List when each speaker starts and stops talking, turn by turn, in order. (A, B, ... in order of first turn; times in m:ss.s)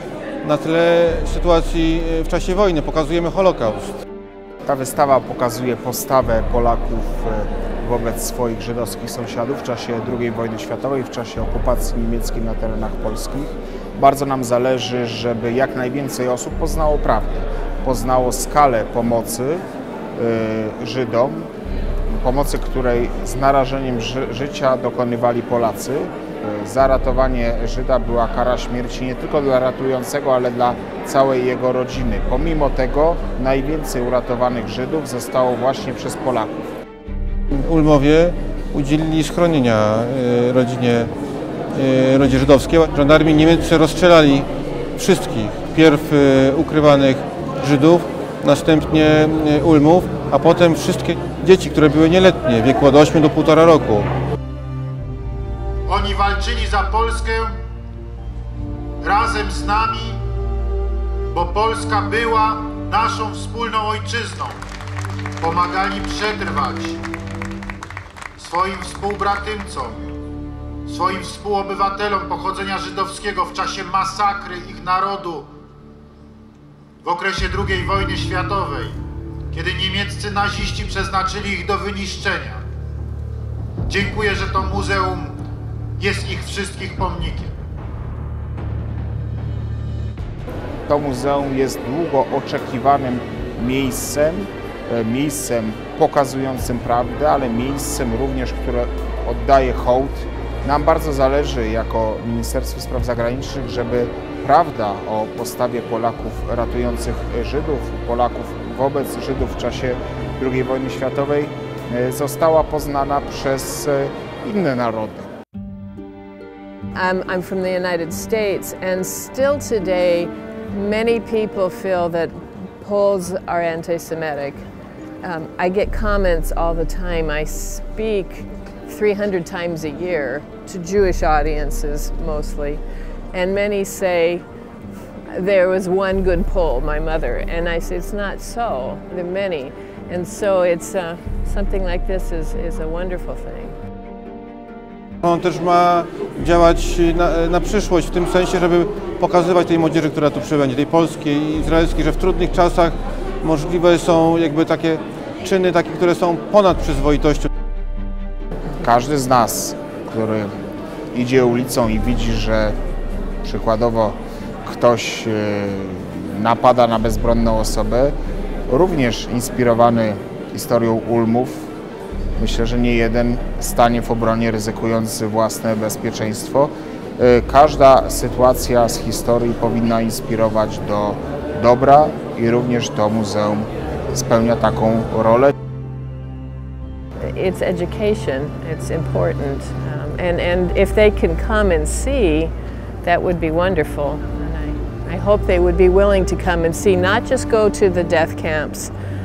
0:00.4-0:04.0 A
0:04.6-0:19.6 B
0:20.2-0:21.5 B
0:22.1-0:36.6 B
0:37.5-0:41.1 A
0:41.7-0:54.1 A
0:55.9-0:57.5 C
0:59.0-1:00.2 C
1:01.3-1:04.6 C
1:05.4-1:07.0 C
1:08.4-1:10.0 C
1:10.9-1:15.5 C
1:17.0-1:19.0 C
1:19.5-1:22.6 C
1:23.9-1:25.4 C
1:26.0-1:27.5 C
1:30.9-1:55.3 B
1:57.0-2:04.6 D
2:05.2-2:12.8 D
2:13.3-2:14.4 D
2:15.3-2:23.8 D
2:25.2-2:37.5 A
2:38.8-2:40.5 B
2:41.1-2:42.8 B
2:43.4-2:48.2 B
2:48.7-2:51.7 B
2:52.4-3:05.5 B
3:07.3-3:12.5 D
3:13.0-3:18.9 D